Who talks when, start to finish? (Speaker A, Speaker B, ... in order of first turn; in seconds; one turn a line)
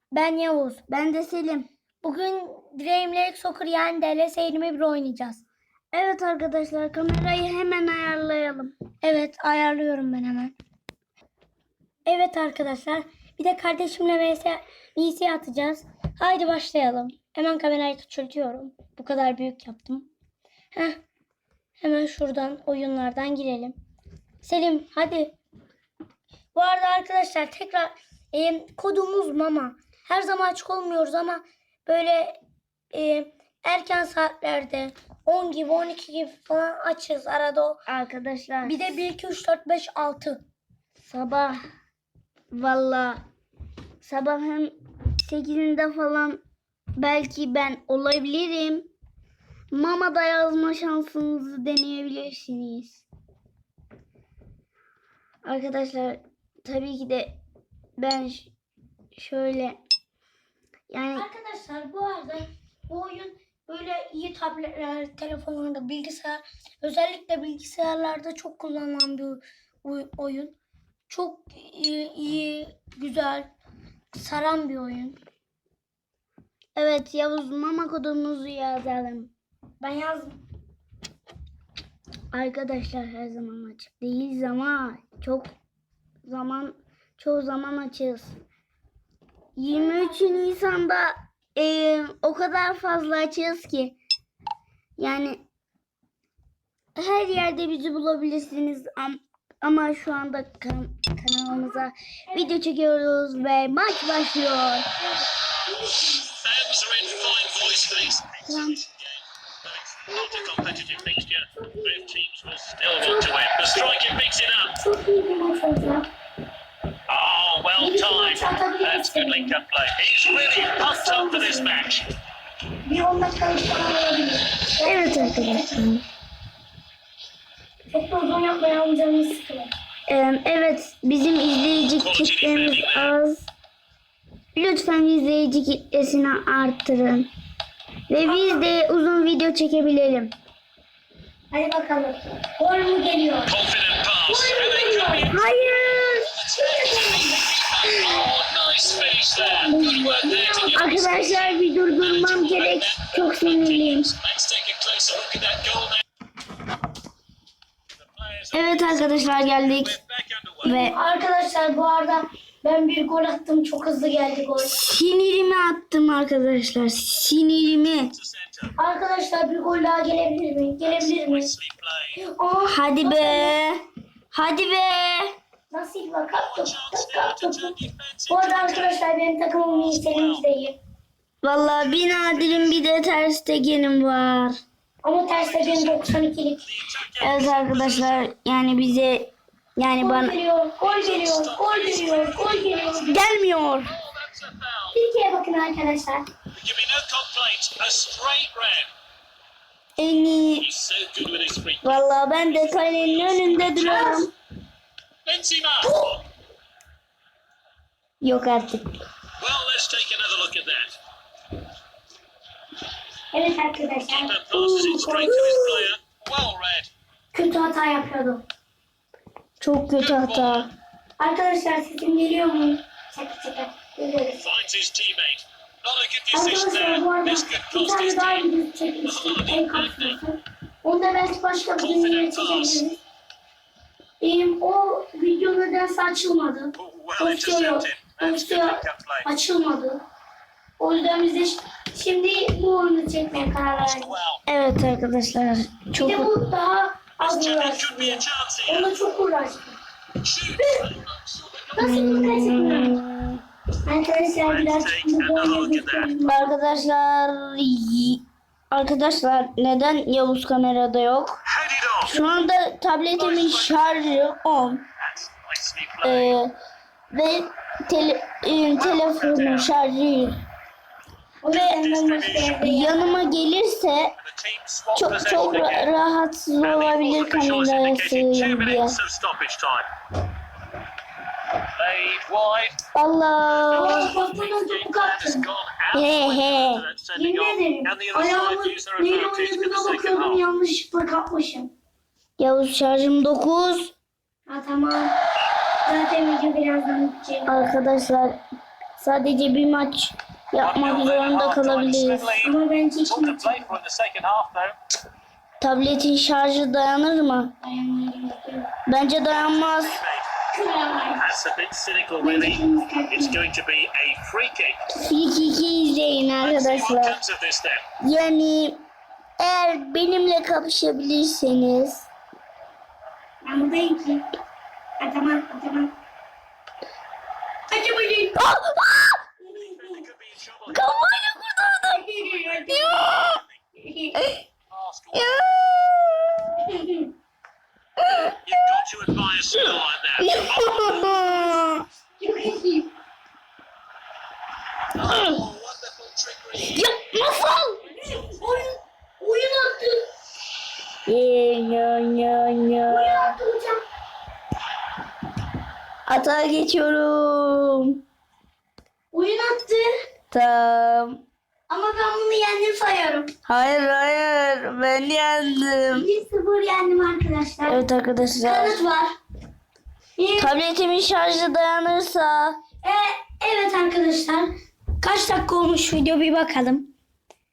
Speaker A: 0.1-0.8
Speaker B: 0.9-1.7
Speaker A: 2.0-5.4
Speaker B: 5.9-8.7
Speaker A: 9.0-10.5
Speaker A: 12.1-20.1
Speaker A: 20.7-21.0
Speaker A: 21.8-23.8
Speaker A: 24.4-25.4
Speaker A: 26.5-32.4
Speaker A: 32.9-37.8
Speaker B: 37.9-38.9
Speaker A: 38.6-40.4
Speaker B: 41.0-41.6
Speaker B: 42.5-43.2
Speaker B: 44.0-46.4
Speaker B: 47.0-48.9
Speaker B: 49.7-53.0
Speaker B: 55.5-57.4
Speaker B: 58.0-58.5
Speaker B: 59.1-59.8
Speaker B: 60.9-61.3
Speaker A: 61.1-70.5
Speaker A: 71.1-73.5
Speaker A: 74.1-75.2
Speaker B: 76.8-79.3
Speaker A: 79.8-80.4
Speaker B: 82.3-85.5
Speaker B: 86.3-88.4
Speaker B: 89.6-94.0
Speaker A: 89.7-90.5
Speaker B: 95.0-95.4
Speaker B: 97.0-104.8
Speaker A: 105.0-106.4
Speaker C: 106.4-114.8
Speaker B: 108.5-108.8
Speaker A: 111.5-112.2
Speaker A: 113.0-113.3
Speaker A: 114.8-116.1
Speaker C: 117.1-122.1
Speaker A: 117.8-119.6
Speaker A: 120.2-121.8
Speaker A: 122.8-125.8
Speaker B: 124.8-126.0
Speaker A: 127.9-129.7
Speaker B: 130.1-133.5
Speaker C: 131.9-133.2
Speaker B: 134.6-137.3
Speaker B: 138.1-140.3
Speaker A: 138.2-138.7
Speaker A: 141.5-143.5
Speaker C: 143.5-156.0
Speaker A: 144.3-145.3
Speaker B: 145.3-146.3
Speaker A: 146.6-147.5
Speaker A: 149.4-150.9
Speaker B: 150.7-154.1
Speaker C: 158.0-160.8
Speaker B: 158.5-160.0
Speaker B: 160.6-160.9
Speaker A: 160.6-164.8
Speaker B: 164.6-168.1
Speaker C: 168.1-168.7
Speaker A: 168.8-171.5
Speaker C: 170.8-172.2
Speaker A: 172.2-173.6
Speaker B: 172.7-173.8
Speaker B: 174.3-175.3
Speaker A: 175.7-177.8
Speaker C: 176.3-179.0
Speaker A: 178.3-180.8
Speaker C: 179.6-180.4
Speaker B: 181.4-184.6
Speaker C: 181.6-182.8
Speaker A: 185.0-186.6
Speaker C: 185.2-188.3
Speaker B: 187.2-190.4
Speaker A: 189.9-193.3
Speaker C: 190.8-195.0
Speaker B: 193.1-193.9
Speaker A: 194.9-196.3
Speaker C: 196.5-198.9
Speaker B: 200.0-200.7
Speaker C: 200.6-204.3
Speaker B: 201.8-204.3
Speaker C: 205.2-206.2
Speaker B: 208.2-208.8
Speaker C: 209.4-211.0
Speaker A: 213.3-215.7
Speaker C: 214.1-216.9
Speaker A: 217.3-218.4
Speaker B: 219.6-220.7
Speaker C: 220.0-220.7
Speaker A: 221.2-224.4
Speaker C: 224.4-228.5
Speaker A: 226.3-233.0
Speaker C: 229.0-230.2
Speaker C: 231.8-232.8
Speaker A: 234.2-240.0
Speaker C: 236.8-239.3
Speaker A: 240.8-244.1
Speaker C: 243.7-244.4
Speaker B: 244.5-246.3
Speaker A: 245.9-249.8
Speaker C: 247.2-249.0
Speaker C: 250.2-252.1
Speaker A: 250.6-250.8
Speaker A: 251.8-253.0
Speaker B: 251.8-253.4
Speaker A: 253.9-256.5
Speaker C: 254.4-256.2
Speaker B: 256.2-261.4
Speaker C: 261.4-262.1
Speaker B: 262.1-264.8
Speaker A: 262.1-262.4
Speaker C: 263.1-264.0
Speaker C: 265.0-266.4
Speaker B: 266.0-266.5
Speaker B: 267.1-270.4
Speaker C: 268.7-269.7
Speaker A: 271.4-273.3
Speaker C: 271.5-272.6
Speaker B: 272.6-274.1
Speaker C: 274.2-275.9
Speaker B: 275.0-279.0
Speaker C: 276.6-279.9
Speaker C: 281.8-282.8
Speaker B: 282.9-284.1
Speaker C: 283.4-290.4
Speaker A: 283.8-285.5
Speaker B: 285.9-286.8
Speaker A: 287.2-291.7
Speaker B: 292.4-293.9
Speaker A: 294.5-295.1
Speaker A: 295.9-297.5
Speaker B: 297.5-298.4
Speaker B: 299.0-302.3
Speaker C: 300.6-304.8
Speaker A: 302.4-303.7
Speaker B: 305.6-307.6
Speaker A: 307.6-308.7
Speaker B: 308.9-310.0
Speaker C: 309.2-310.3
Speaker A: 310.5-311.3
Speaker C: 311.2-314.8
Speaker A: 312.2-313.4
Speaker B: 314.9-317.2
Speaker C: 316.4-317.8
Speaker B: 318.0-318.8
Speaker B: 319.4-322.1
Speaker A: 323.4-324.2
Speaker A: 325.0-325.9
Speaker A: 327.7-328.4
Speaker B: 328.4-329.2
Speaker A: 329.4-330.1
Speaker C: 329.5-331.0
Speaker B: 330.7-333.4
Speaker A: 331.9-333.1
Speaker C: 332.3-333.6
Speaker A: 333.8-334.2
Speaker B: 334.1-334.4
Speaker C: 334.7-335.5
Speaker B: 335.1-336.9
Speaker B: 338.0-338.4
Speaker C: 338.4-341.4
Speaker B: 339.5-341.9
Speaker A: 342.2-342.9
Speaker C: 344.9-346.9
Speaker B: 345.0-345.4
Speaker B: 346.6-347.8
Speaker A: 347.8-350.0
Speaker C: 347.9-348.7
Speaker B: 351.1-353.3
Speaker A: 352.9-353.8
Speaker B: 356.1-358.0
Speaker A: 359.1-359.9
Speaker B: 360.3-361.2
Speaker A: 361.7-363.3
Speaker B: 363.5-366.1
Speaker A: 365.9-367.8
Speaker B: 367.7-368.8
Speaker A: 368.4-369.1
Speaker A: 370.2-370.5
Speaker B: 370.4-372.6
Speaker A: 372.8-374.5
Speaker A: 375.0-376.9